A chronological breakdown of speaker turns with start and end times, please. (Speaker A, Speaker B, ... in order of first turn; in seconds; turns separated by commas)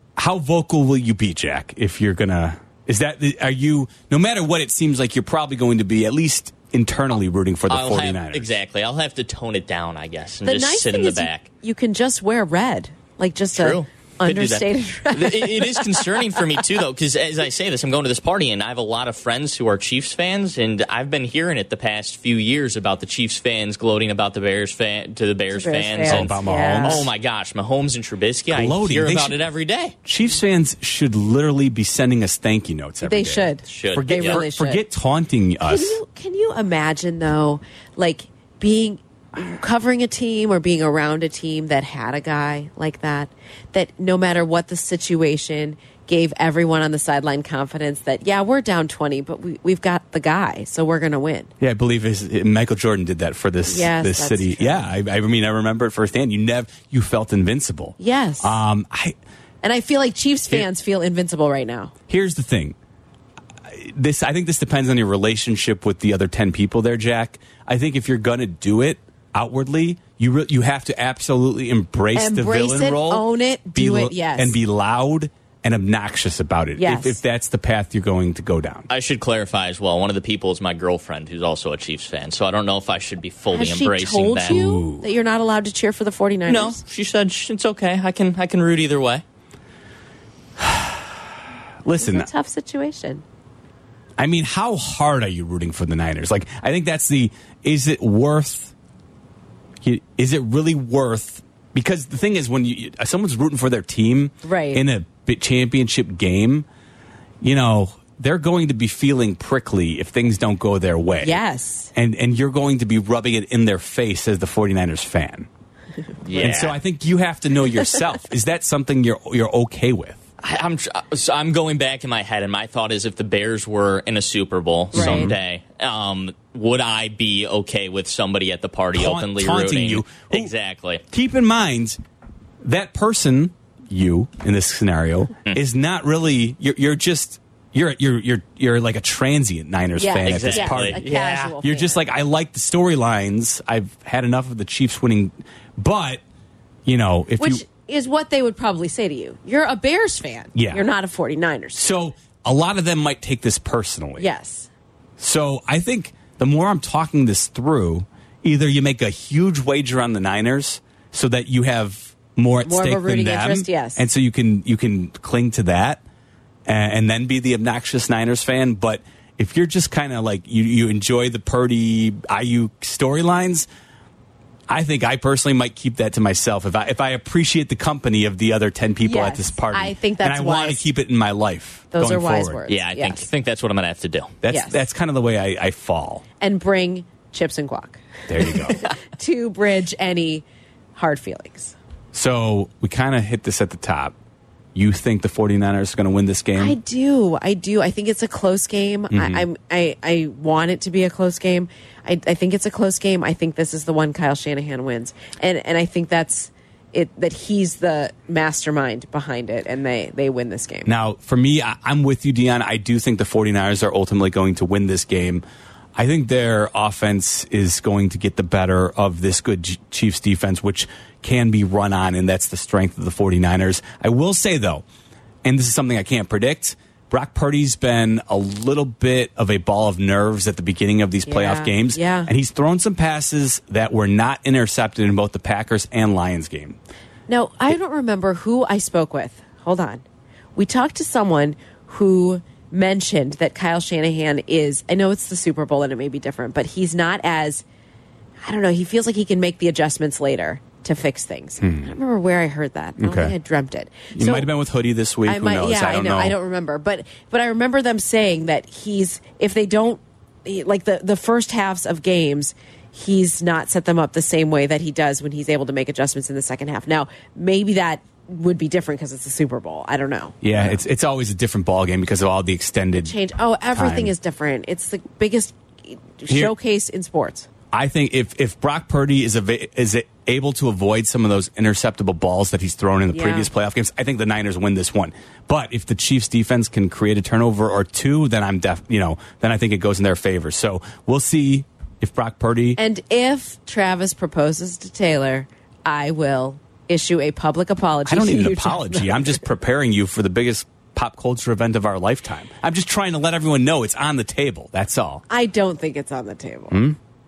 Speaker A: 0.2-8.5, Speaker B: 7.7-11.5, Speaker C: 10.4-16.6, Speaker B: 13.5-30.0, Speaker C: 25.5-27.1, Speaker A: 26.1-27.1, Speaker A: 28.5-29.4, Speaker A: 30.0-36.0, Speaker C: 33.0-34.8, Speaker B: 33.7-34.5, Speaker C: 35.6-51.5, Speaker A: 51.6-59.2, Speaker C: 53.7-54.9, Speaker C: 58.0-58.6, Speaker C: 59.6-61.9, Speaker A: 62.1-62.8, Speaker A: 63.7-78.9, Speaker C: 72.2-74.6, Speaker C: 76.8-77.2, Speaker B: 78.9-84.6, Speaker C: 83.5-86.8, Speaker A: 84.5-85.1, Speaker B: 86.5-89.2, Speaker A: 90.6-91.2, Speaker A: 91.8-92.3, Speaker C: 92.0-93.2, Speaker A: 94.2-98.7, Speaker A: 99.8-106.7, Speaker C: 104.4-104.8, Speaker A: 107.4-111.4, Speaker C: 111.2-111.9, Speaker A: 112.0-115.5, Speaker B: 116.2-116.8, Speaker A: 116.3-120.2, Speaker B: 120.4-131.0, Speaker A: 124.9-125.3, Speaker C: 124.9-125.4, Speaker A: 128.9-130.5, Speaker A: 131.1-132.0, Speaker A: 132.6-146.2, Speaker C: 140.0-142.0, Speaker B: 140.2-141.6, Speaker A: 146.8-147.6, Speaker C: 147.4-151.9, Speaker A: 150.6-150.9, Speaker A: 151.8-154.3, Speaker C: 154.2-154.7, Speaker A: 155.2-166.0, Speaker C: 162.7-164.1, Speaker A: 166.7-173.7, Speaker A: 174.7-182.6, Speaker C: 179.0-180.9, Speaker C: 181.9-183.3, Speaker B: 182.7-184.4, Speaker A: 184.4-186.2, Speaker C: 184.5-184.8, Speaker C: 186.4-190.4, Speaker A: 188.3-188.9, Speaker C: 191.0-191.8, Speaker A: 192.1-194.1, Speaker A: 194.7-196.8, Speaker C: 196.6-210.9, Speaker A: 199.1-199.4, Speaker A: 210.9-215.4, Speaker A: 216.0-224.8, Speaker A: 225.4-236.8, Speaker C: 231.3-232.3, Speaker C: 237.3-240.0, Speaker C: 240.6-247.6, Speaker C: 248.4-254.5, Speaker A: 251.6-251.9, Speaker A: 253.0-253.3, Speaker A: 254.1-256.4, Speaker C: 255.3-270.8, Speaker A: 270.4-273.1, Speaker C: 273.0-277.5, Speaker A: 273.8-274.1, Speaker A: 276.3-276.5, Speaker A: 277.7-292.8, Speaker C: 283.1-283.5, Speaker C: 292.8-299.4, Speaker A: 298.1-305.2, Speaker C: 305.3-306.8, Speaker A: 306.7-307.0